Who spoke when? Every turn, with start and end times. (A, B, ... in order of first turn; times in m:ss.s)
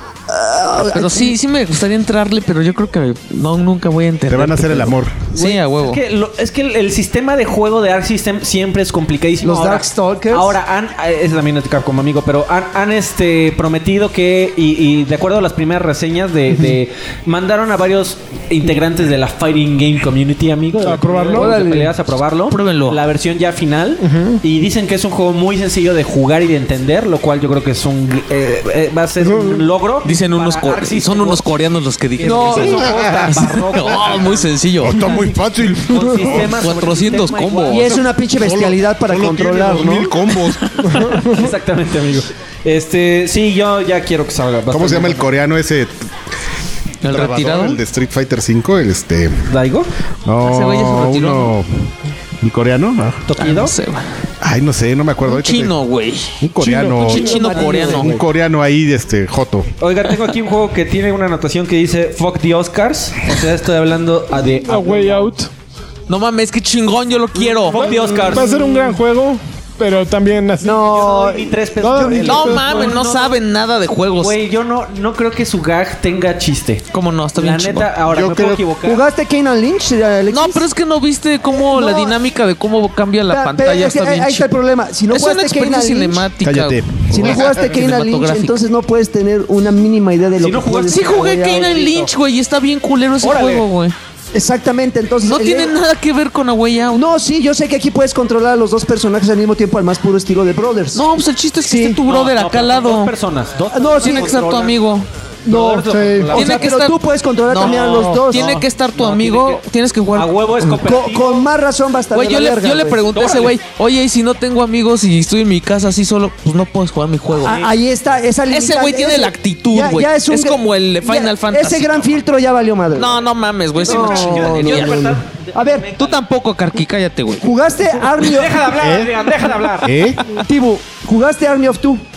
0:00.3-0:01.4 A
0:00.9-0:06.0 B
0:04.3-0:05.2 C
0:05.4-0:31.5 D
0:09.4-0:10.6 A
0:20.8-0:21.6 E
0:21.3-0:21.9 A
0:22.5-0:23.0 B
0:24.0-0:24.4 E
0:29.2-0:29.6 E
0:30.0-0:35.1 B
0:32.2-0:38.0 D
0:32.6-0:33.4 C
0:34.8-0:36.5 C
0:36.4-0:38.0 B
0:37.7-0:40.1 A
0:38.4-0:40.8 C
0:40.9-0:41.5 E
0:41.0-0:45.3 D
0:44.7-0:46.0 C
0:47.0-0:47.8 B
0:47.1-0:49.5 C
0:49.5-0:49.9 D
0:50.2-0:51.9 C
0:50.4-0:51.5 B
0:52.4-0:53.3 C
0:53.3-0:53.8 D
0:53.4-0:54.0 B
0:54.4-0:55.8 C
0:55.2-0:56.4 B
0:56.4-0:59.7 C
0:56.6-0:57.5 E
0:57.0-0:58.2 B
0:57.1-0:58.2 A
0:59.8-1:05.3 D
1:04.6-1:05.5 E
1:06.1-1:08.2 B
1:07.4-1:09.0 D
1:07.7-1:10.9 E
1:08.1-1:08.4 A
1:10.6-1:12.7 A
1:10.7-1:13.4 D
1:11.8-1:12.7 E
1:12.2-1:14.4 B
1:14.2-1:19.0 D
1:16.9-1:17.9 B
1:18.1-1:18.6 C
1:18.8-1:20.7 A
1:20.3-1:24.5 B
1:21.5-1:22.2 A
1:23.3-1:26.3 A
1:25.1-1:28.6 B
1:26.4-1:27.4 C
1:27.1-1:31.8 A
1:30.4-1:32.1 D
1:30.9-1:34.0 B
1:33.2-1:33.7 D
1:34.3-1:35.8 A
1:35.2-1:37.0 B
1:36.9-1:41.1 A
1:40.9-1:43.1 B
1:41.6-1:42.0 A
1:42.0-1:44.8 D
1:43.7-1:44.3 A
1:44.0-1:45.1 B
1:45.5-1:46.8 D
1:45.5-1:48.6 A
1:45.9-1:46.3 E
1:46.3-1:50.3 B
1:47.6-1:51.4 D
1:47.9-1:48.2 E
1:50.7-1:53.1 A
1:52.1-1:57.6 B
1:53.1-1:53.5 D
1:57.4-2:03.2 A
1:57.4-1:57.7 D
1:58.5-2:02.2 B
2:03.0-2:05.2 B
2:03.8-2:06.2 D
2:03.8-2:05.9 A
2:06.0-2:07.5 B
2:07.4-2:08.6 A
2:08.2-2:09.9 D
2:08.7-2:10.2 C
2:10.4-2:12.0 A